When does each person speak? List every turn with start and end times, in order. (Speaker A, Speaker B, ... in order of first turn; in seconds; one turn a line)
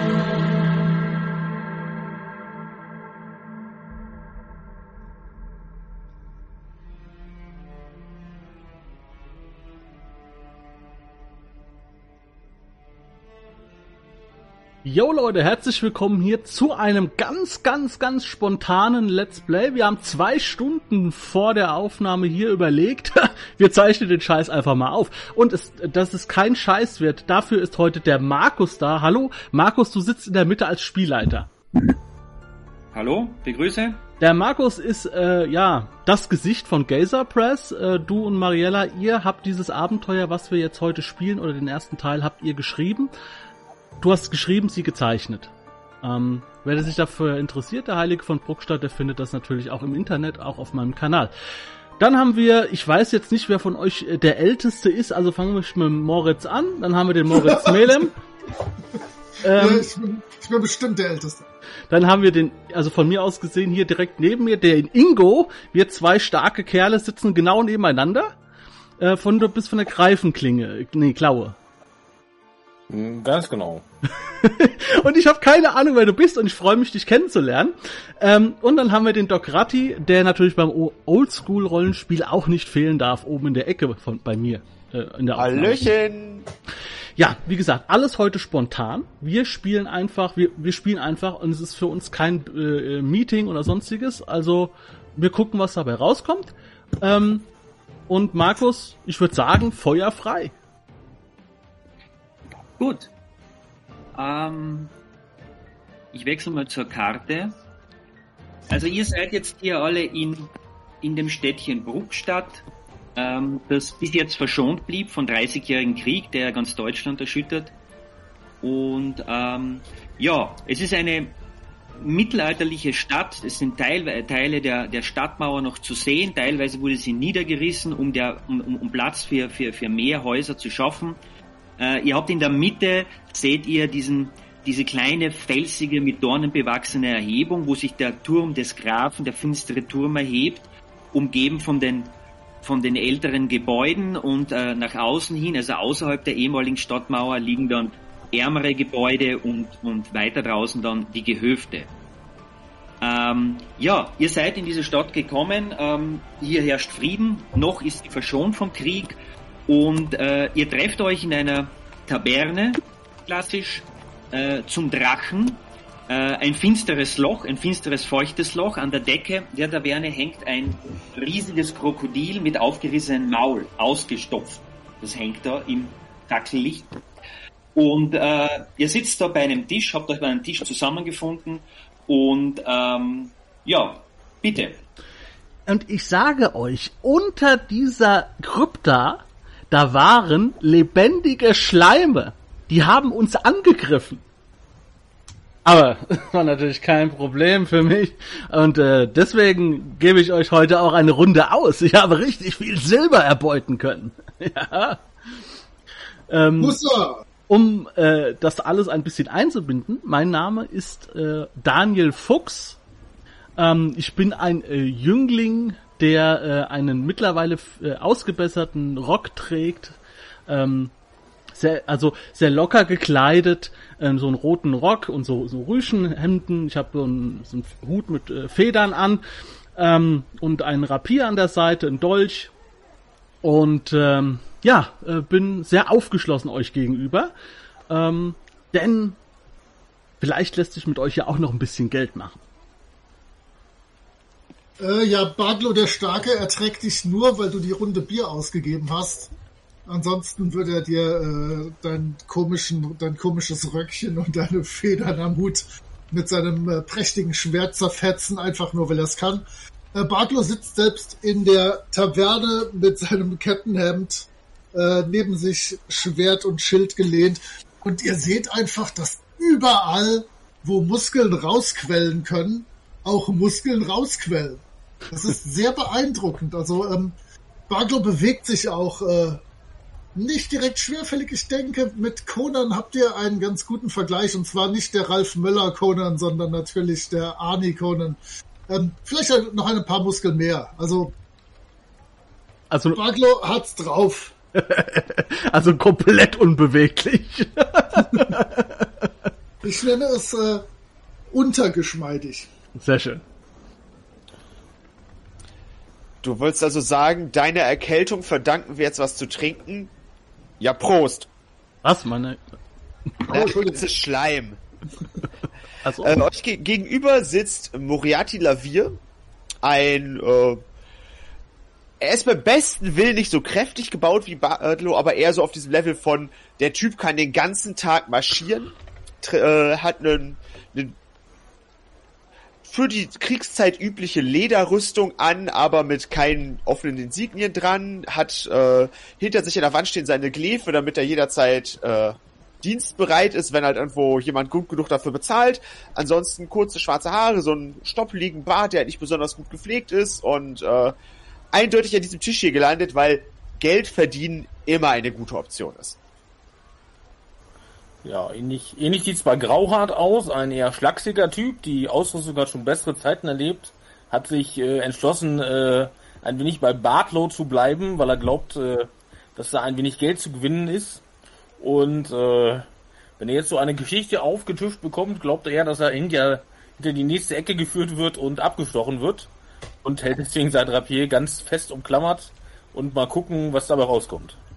Speaker A: 14.8-31.5
Speaker B: 32.9-34.0
Speaker A: 34.2-43.1
Speaker A: 44.0-51.3
Speaker A: 52.0-58.1
Speaker C: 57.3-58.0
Speaker A: 59.4-59.9
Speaker C: 59.5-61.5
Speaker A: 61.9-68.3
Speaker A: 69.0-71.5
Speaker D: 72.9-73.8
Speaker A: 74.3-85.9
Speaker E: 85.3-86.5
Speaker A: 87.2-97.5
Speaker A: 98.1-100.5
Speaker B: 102.8-103.1
Speaker B: 104.1-104.9
Speaker B: 106.1-107.5
Speaker B: 108.7-112.6
Speaker B: 113.2-117.7
Speaker B: 118.6-121.3
Speaker B: 122.0-131.2
Speaker B: 131.8-151.9
Speaker B: 153.0-176.9
Speaker B: 177.7-184.8
Speaker A: 185.7-194.2
Speaker A: 195.6-205.1
Speaker A: 206.3-206.8
Speaker C: 206.6-207.2
Speaker A: 207.5-212.8
Speaker A: 213.6-220.9
Speaker A: 221.5-229.2
Speaker A: 229.8-232.5
Speaker A: 233.4-237.3
Speaker A: 237.9-239.2
Speaker A: 240.2-242.4
Speaker C: 244.8-249.3
Speaker C: 249.8-277.1
Speaker C: 277.7-279.4
Speaker C: 280.1-291.1
Speaker A: 292.7-293.0
Speaker C: 292.9-294.3
Speaker A: 294.5-299.1
Speaker C: 299.6-300.6
Speaker C: 301.3-302.5
Speaker A: 302.8-303.2
Speaker E: 306.2-309.9
Speaker E: 310.6-311.3
Speaker A: 311.8-312.4
Speaker C: 313.3-313.9
Speaker E: 313.3-314.6
Speaker A: 315.8-316.2
Speaker E: 316.0-319.0
Speaker E: 319.6-320.6
Speaker E: 322.0-330.9
Speaker E: 332.6-350.9
Speaker E: 351.5-356.0
Speaker D: 358.0-371.0
Speaker D: 371.6-372.7
Speaker D: 373.2-379.3
Speaker D: 379.8-384.4